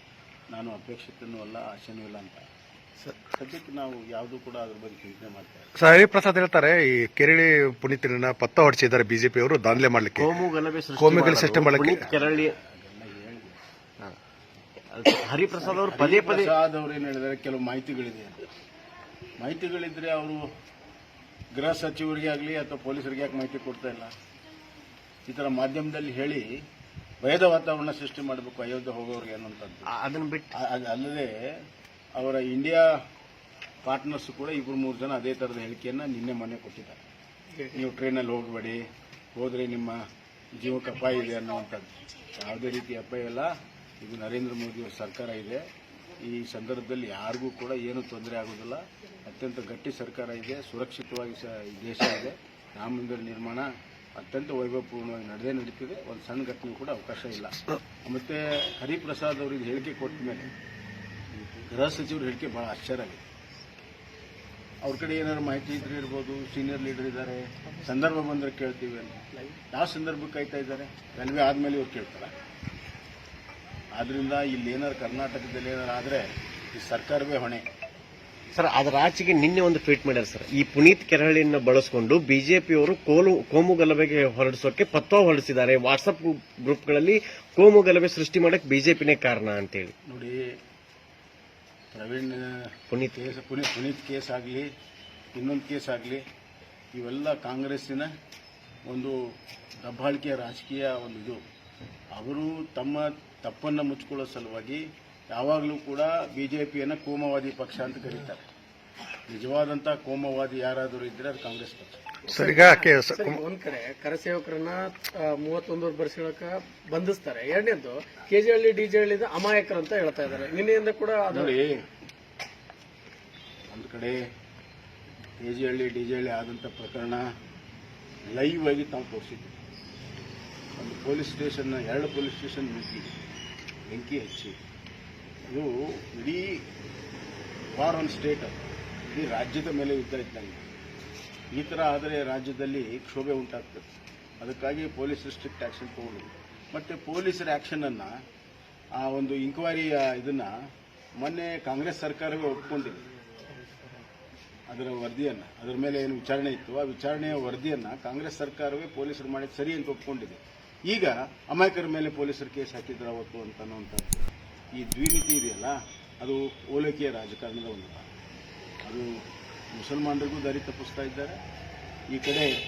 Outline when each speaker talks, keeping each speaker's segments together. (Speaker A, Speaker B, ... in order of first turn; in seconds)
Speaker A: 0.5-2.5, 3.3-5.7, 12.0-13.6, 15.5-18.5, 19.4-20.4, 21.5-24.1, 25.3-26.4, 27.2-29.9, 30.5-31.3, 32.1-32.9, 33.8-37.0, 37.7-38.8, 39.4-40.0, 40.5-43.5, 44.0-45.6, 46.2-60.5, 61.4-63.2, 64.8-72.3, 73.9-77.6, 90.1-90.5, 91.9-94.7, 95.4-96.2, 96.9-98.1, 98.9-99.2, 99.8-101.4, 102.1-108.5, 109.3-112.2, 121.3-121.8, 123.7-124.2, 125.4-127.3, 128.3-129.6, 130.8-133.2, 133.9-134.6, 135.5-136.6, 137.8-140.6, 141.5-143.9, 144.4-148.1, 149.0-150.5, 151.2-153.0, 154.7-164.2, 164.8-168.1, 169.7-171.4, 172.1-172.5
Speaker B: 5.8-10.4, 10.9-12.1, 112.3-113.4
Speaker C: 10.2-12.5, 14.9-16.5, 29.9-30.5, 78.5-89.9
Speaker D: 112.3-121.5